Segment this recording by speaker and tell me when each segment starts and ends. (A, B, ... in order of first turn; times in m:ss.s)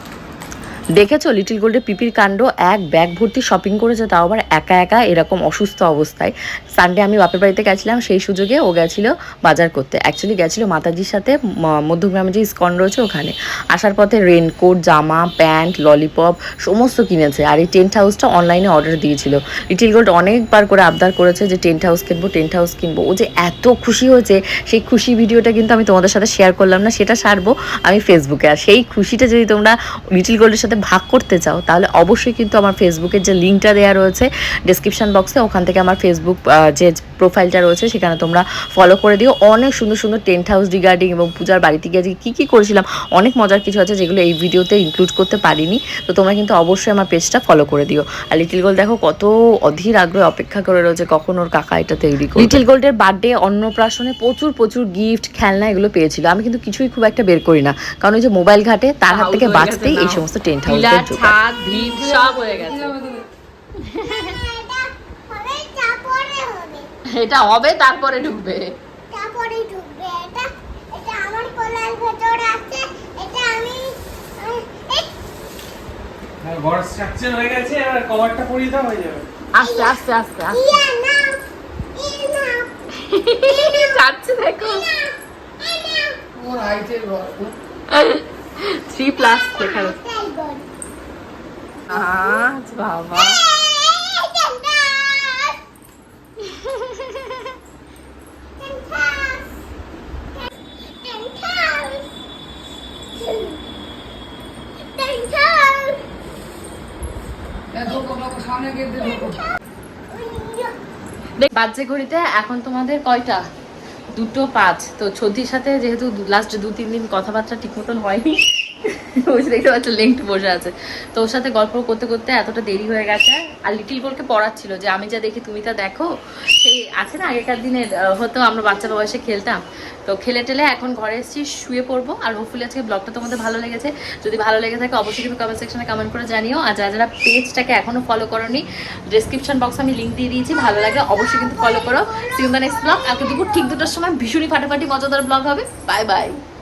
0:01.0-1:01.3 A
0:52.4-0:52.6 B
0:59.0-1:02.9 B
1:01.6-1:03.2 C
1:03.9-1:06.9 D
1:07.1-1:08.7 B
1:09.1-1:15.1 D
1:16.5-1:19.2 E
1:19.5-1:20.8 B
1:19.6-1:20.0 D
1:20.5-1:21.4 D
1:22.0-1:22.7 D
1:23.0-1:24.9 B
1:23.4-1:24.0 D
1:24.6-1:26.2 D
1:26.3-1:27.5 C
1:27.9-1:29.9 B
1:29.2-1:30.6 D
1:31.9-1:33.4 B
1:31.9-1:32.4 D
1:33.1-1:35.6 D
1:36.4-1:37.5 D
1:38.6-1:39.5 D
1:40.4-1:42.1 D
1:43.1-1:43.6 D
1:44.8-1:46.0 D
1:47.7-1:49.4 C
1:49.0-1:49.3 D
1:50.1-1:50.7 D
1:51.4-1:53.4 B
1:54.1-2:06.1 B
2:06.6-2:26.4 B
2:21.8-2:22.1 D